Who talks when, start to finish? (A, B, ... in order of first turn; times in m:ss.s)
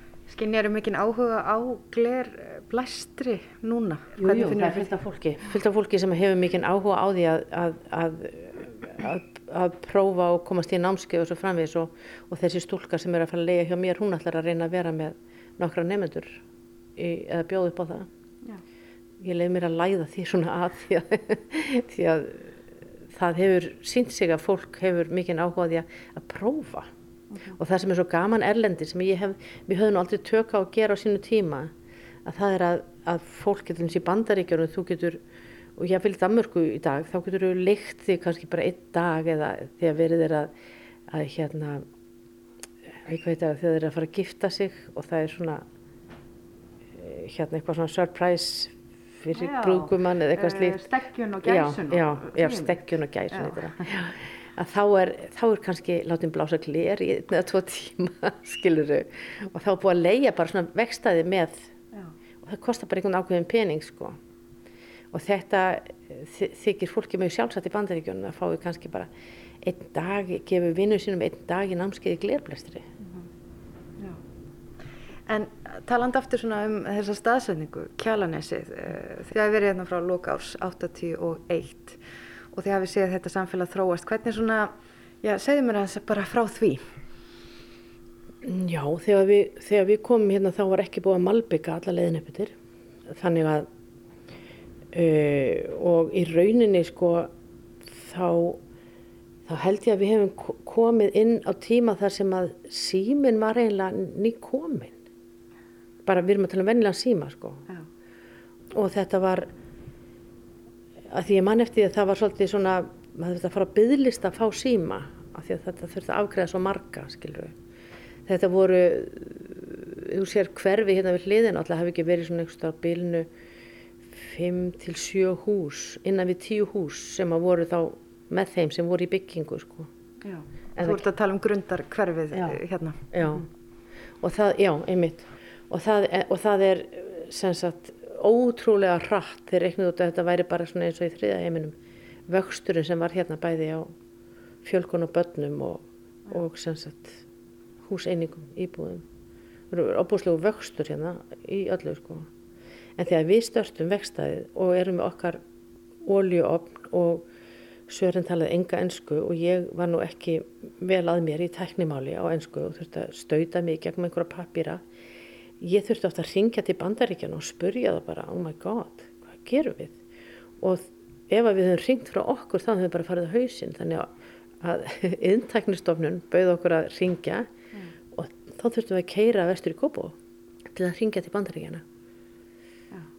0:00.3-0:04.9 A
0:04.2-0:16.4 B
0:17.0-0:18.1 B
0:19.2-0:22.6 B
0:23.1-0:26.9 B
0:27.6-0:31.7 B
0:32.2-0:35.2 B
0:35.8-0:40.5 B
0:41.1-0:41.9 B
0:43.0-0:45.6 B
0:46.9-1:01.7 B
0:49.4-0:52.8 A
0:53.3-0:53.6 A
1:02.4-1:04.2 B
1:05.1-1:09.1 B
1:09.6-1:12.9 B
1:15.3-1:22.0 A
1:22.5-1:26.8 A
1:28.4-1:32.6 B
1:33.1-1:33.7 B
1:34.9-1:37.3 B
1:37.8-1:38.6 B
1:39.5-1:45.0 B
1:46.0-1:47.6 B
1:48.7-1:49.5 B
1:51.1-1:57.6 B
1:58.3-2:03.3 B
2:04.1-2:09.9 B
2:10.2-2:13.4 A
2:10.8-2:11.1 B
2:12.3-2:12.6 B
2:13.1-2:13.5 B
2:14.2-2:21.8 B
2:22.3-2:23.9 B
2:24.6-2:27.2 B
2:27.8-2:29.0 B
2:29.7-2:32.3 B
2:33.0-2:35.4 B
2:36.0-2:37.3 B
2:37.9-2:44.8 B
2:45.6-2:50.0 B
2:50.6-2:57.5 B
2:58.1-3:00.2 B
3:00.7-3:01.8 B